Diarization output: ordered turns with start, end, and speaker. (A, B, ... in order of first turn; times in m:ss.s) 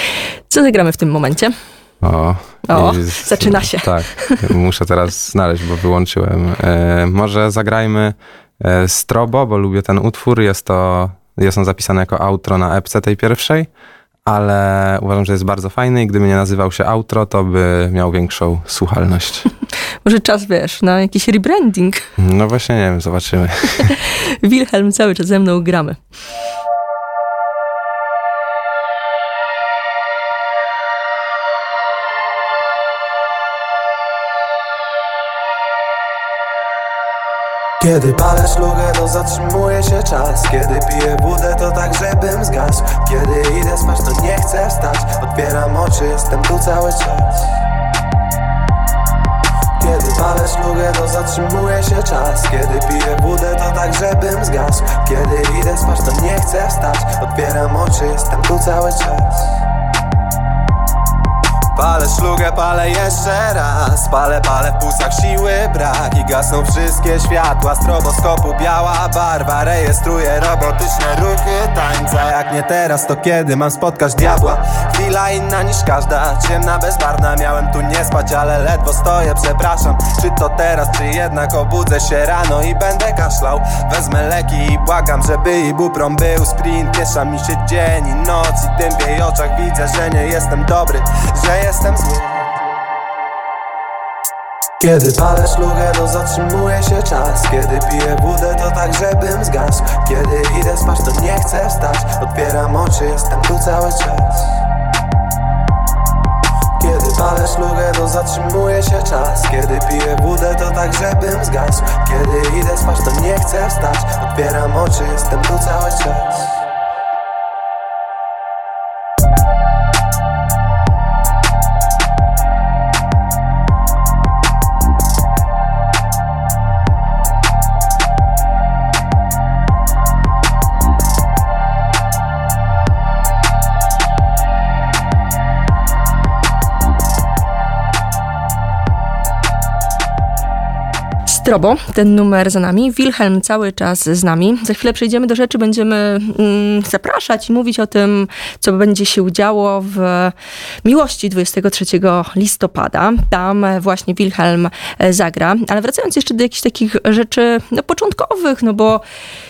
0:00.5-0:01.5 A
0:02.0-0:13.7 B
0:02.7-0:04.4 A
0:14.2-0:19.5 B
0:20.0-0:22.1 A
0:22.2-0:23.9 B
0:23.8-0:26.0 A
0:37.8-0:47.6 C
0:49.8-0:59.6 C
1:01.7-1:32.5 C
1:34.8-1:44.6 C
1:46.8-1:56.6 C
2:21.2-2:39.0 A